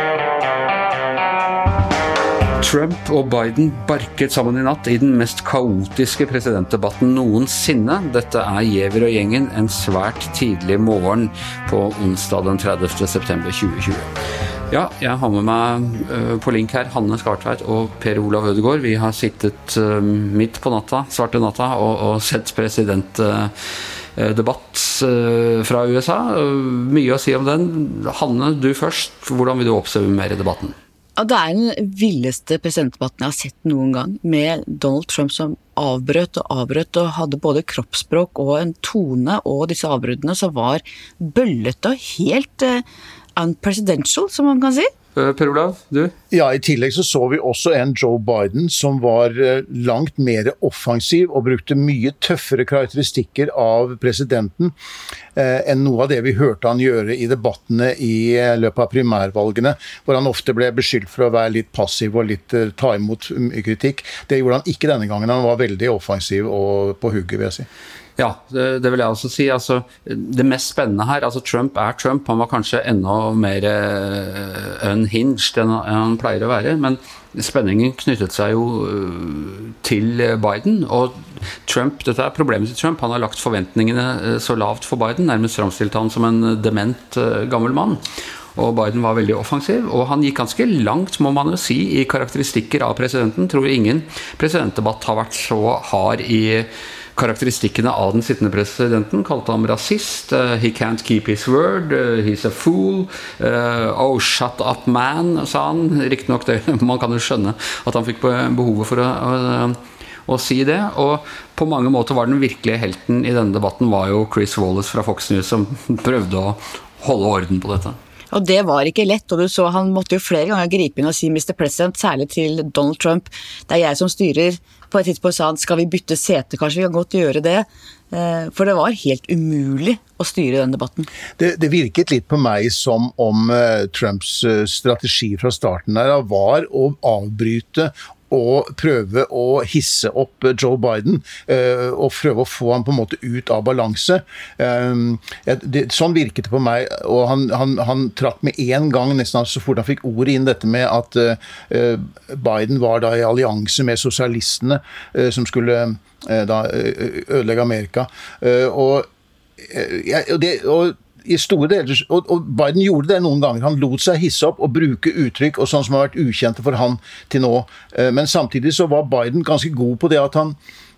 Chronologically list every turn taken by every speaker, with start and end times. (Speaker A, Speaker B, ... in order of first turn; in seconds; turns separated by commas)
Speaker A: 2.6-14.1, Speaker A: 14.7-23.5, Speaker A: 24.1-30.7, Speaker B: 31.2-42.8, Speaker B: 43.4-44.9, Speaker A: 45.1-46.1, Speaker C: 46.3-54.7, Speaker C: 55.4-67.7, Speaker A: 68.2-88.0, Speaker A: 88.5-118.0, Speaker B: 118.3-131.1, Speaker C: 131.4-159.1, Speaker C: 159.7-170.6